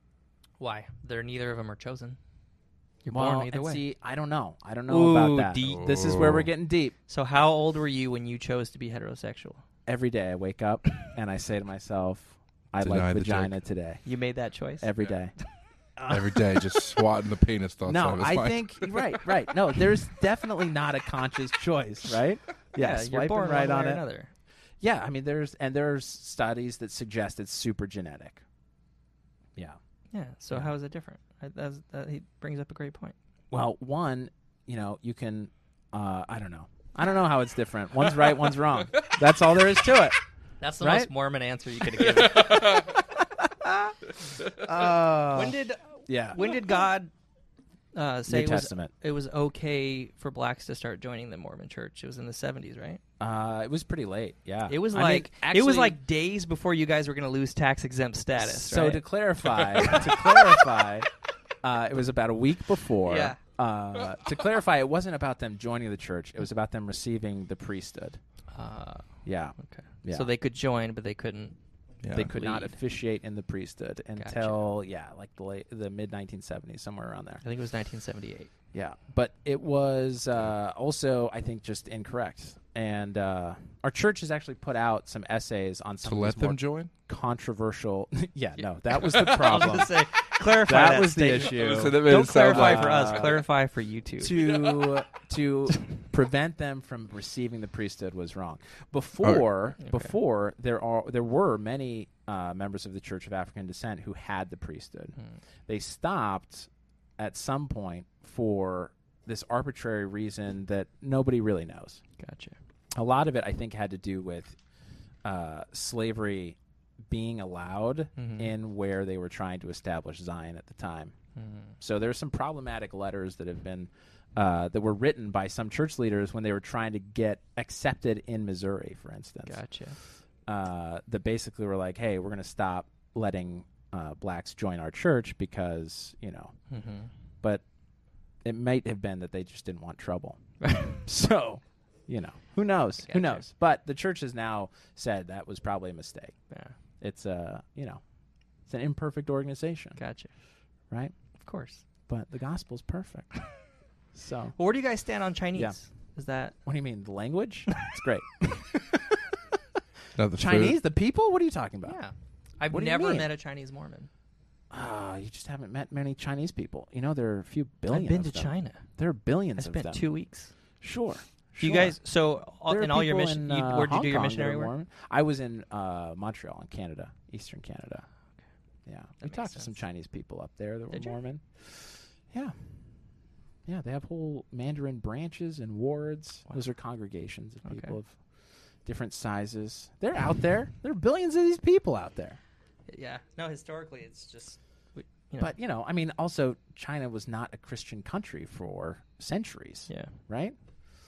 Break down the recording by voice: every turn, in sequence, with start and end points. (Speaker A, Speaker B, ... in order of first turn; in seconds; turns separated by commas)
Speaker A: 0.6-2.2, Speaker A: 3.0-3.8, Speaker B: 3.1-7.0, Speaker A: 4.9-6.0, Speaker C: 5.6-6.5, Speaker A: 7.1-9.6, Speaker B: 9.9-14.0, Speaker C: 12.8-13.6, Speaker A: 14.1-14.9, Speaker B: 14.8-15.3, Speaker B: 16.0-16.6, Speaker C: 16.1-19.3, Speaker B: 17.9-24.0, Speaker A: 22.8-24.3, Speaker B: 24.8-28.4, Speaker A: 30.1-33.1, Speaker B: 33.5-40.2, Speaker A: 40.6-42.9, Speaker B: 40.8-41.1, Speaker C: 42.3-42.9, Speaker B: 42.3-44.0, Speaker B: 44.5-46.9, Speaker A: 45.3-47.1, Speaker A: 48.0-53.0, Speaker B: 48.3-48.9, Speaker B: 53.2-56.0, Speaker A: 54.7-60.6, Speaker B: 58.4-61.1, Speaker B: 61.6-68.2, Speaker A: 63.0-63.4, Speaker A: 68.5-69.1, Speaker B: 69.2-70.3, Speaker A: 69.6-71.6, Speaker C: 72.0-72.3, Speaker B: 72.1-77.4, Speaker A: 72.2-72.8, Speaker A: 74.2-74.7, Speaker A: 77.4-78.5, Speaker B: 78.7-93.4, Speaker C: 86.0-86.9, Speaker A: 89.0-94.5, Speaker C: 91.4-93.4, Speaker B: 94.2-105.2, Speaker C: 99.2-99.5, Speaker A: 99.8-100.1, Speaker B: 105.7-112.0, Speaker A: 112.2-112.6, Speaker B: 113.0-114.6, Speaker B: 115.2-121.1, Speaker A: 118.2-118.5, Speaker A: 121.4-121.7, Speaker B: 121.8-129.6, Speaker A: 129.5-130.0, Speaker B: 130.5-136.6, Speaker A: 136.7-137.1, Speaker B: 138.4-146.3, Speaker A: 140.6-141.0, Speaker A: 143.1-143.5, Speaker B: 147.0-148.0, Speaker B: 148.7-150.0, Speaker A: 150.0-150.3, Speaker A: 151.4-151.8, Speaker B: 152.1-153.3, Speaker B: 154.1-154.6, Speaker A: 154.6-156.6, Speaker B: 156.7-159.4, Speaker C: 160.2-160.8, Speaker B: 160.4-162.0, Speaker A: 161.8-164.1, Speaker B: 162.7-163.3, Speaker B: 164.7-170.1, Speaker A: 167.9-168.8, Speaker A: 169.6-170.5, Speaker B: 170.8-172.0, Speaker A: 171.6-174.7, Speaker B: 172.7-178.1, Speaker B: 178.9-182.7, Speaker A: 179.2-179.8, Speaker B: 183.7-188.2, Speaker A: 187.7-187.9, Speaker B: 188.8-192.4, Speaker A: 192.9-195.5, Speaker B: 195.4-200.6